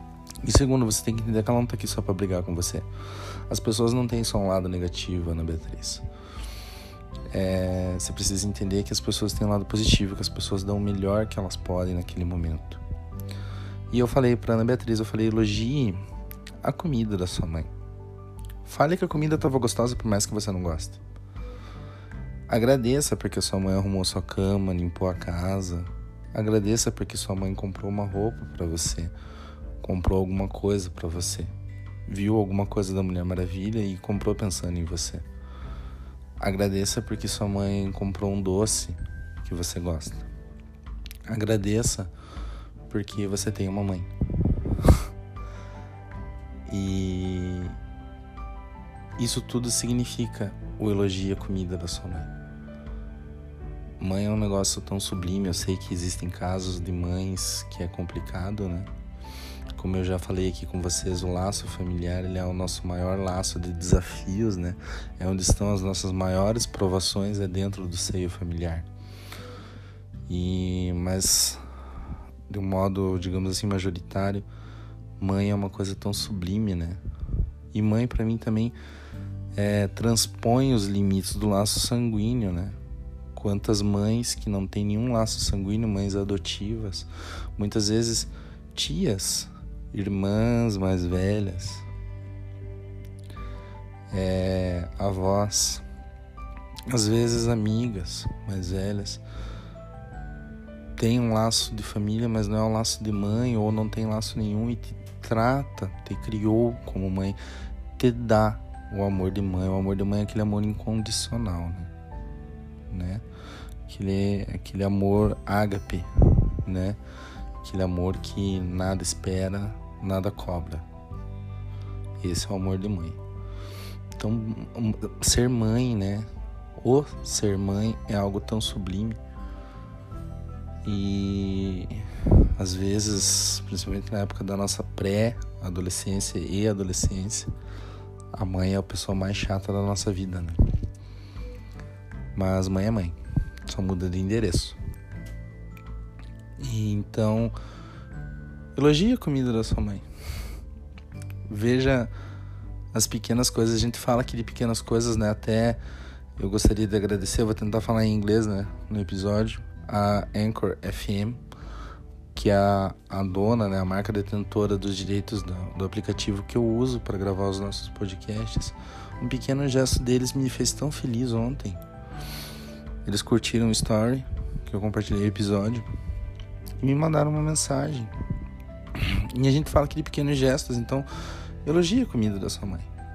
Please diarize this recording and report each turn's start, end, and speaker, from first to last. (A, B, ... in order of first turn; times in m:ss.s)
0:00.4-0:02.9 A
0:03.5-0:06.0 A
0:07.3-0:12.8 A
0:13.9-0:16.0 A
0:16.6-0:17.7 A
0:18.6-0:21.0 A
0:22.5-0:29.1 A
0:29.8-0:31.5 A
0:32.1-0:35.2 A
0:36.4-0:40.3 A
0:41.3-0:42.1 A
0:42.9-0:44.1 A
0:46.7-0:47.8 A
0:49.2-0:52.3 A
0:54.0-0:58.9 A
0:59.8-1:08.9 A
1:10.3-1:11.6 A
1:12.5-1:14.4 A
1:15.2-1:17.0 A
1:17.7-1:18.8 A
1:19.6-1:22.8 A
1:23.4-1:31.8 A
1:34.1-1:35.8 A
1:36.9-1:39.2 A
1:41.0-1:47.4 A
1:48.0-1:51.9 A
1:52.9-1:53.2 A
1:53.9-1:57.0 A
1:57.6-2:00.9 A
2:02.2-2:03.2 A
2:04.2-2:09.2 A
2:10.8-2:12.0 A
2:12.6-2:17.5 A
2:18.3-2:20.6 A
2:22.4-2:24.8 A
2:26.6-2:27.5 A
2:28.8-2:30.0 A
2:31.5-2:32.1 A
2:32.9-2:35.8 A
2:36.4-2:41.4 A
2:42.3-2:51.8 A
2:53.0-2:55.9 A
2:56.8-2:58.1 A
2:59.0-3:01.1 A
3:01.6-3:02.9 A